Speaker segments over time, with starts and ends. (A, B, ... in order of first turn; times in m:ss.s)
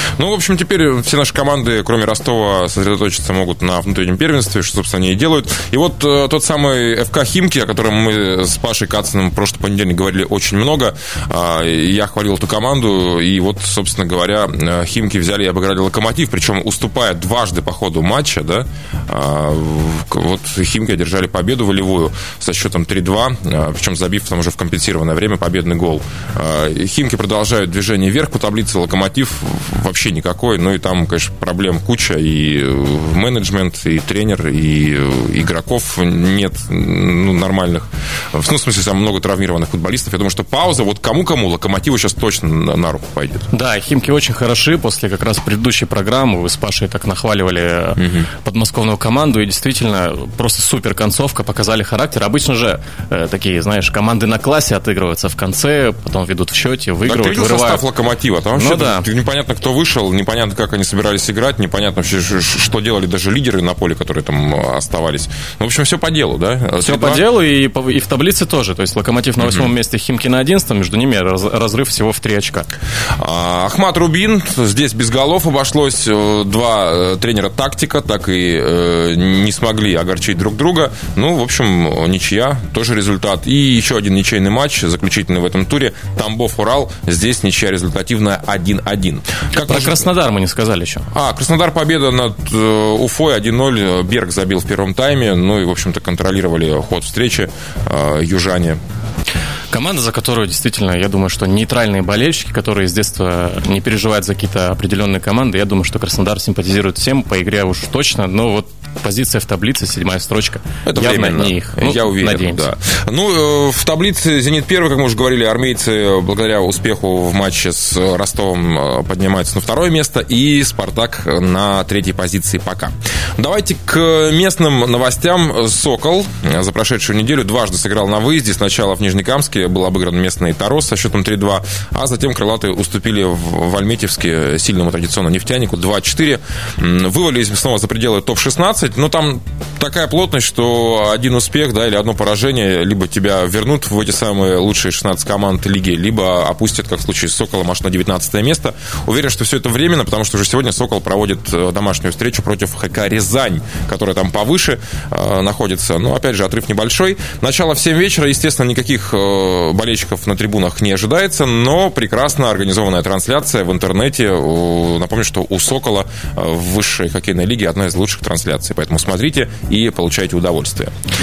0:00.2-0:43.4 A
0:43.5-0:57.8 B
0:48.0-0:48.3 A
0:57.0-1:07.2 A
0:58.6-0:59.0 B
1:06.8-1:12.7 B
1:09.4-1:09.7 A
1:13.2-1:30.1 A
1:29.6-1:31.1 B
1:31.1-1:38.8 A
1:39.7-1:52.7 B
1:50.8-2:50.9 A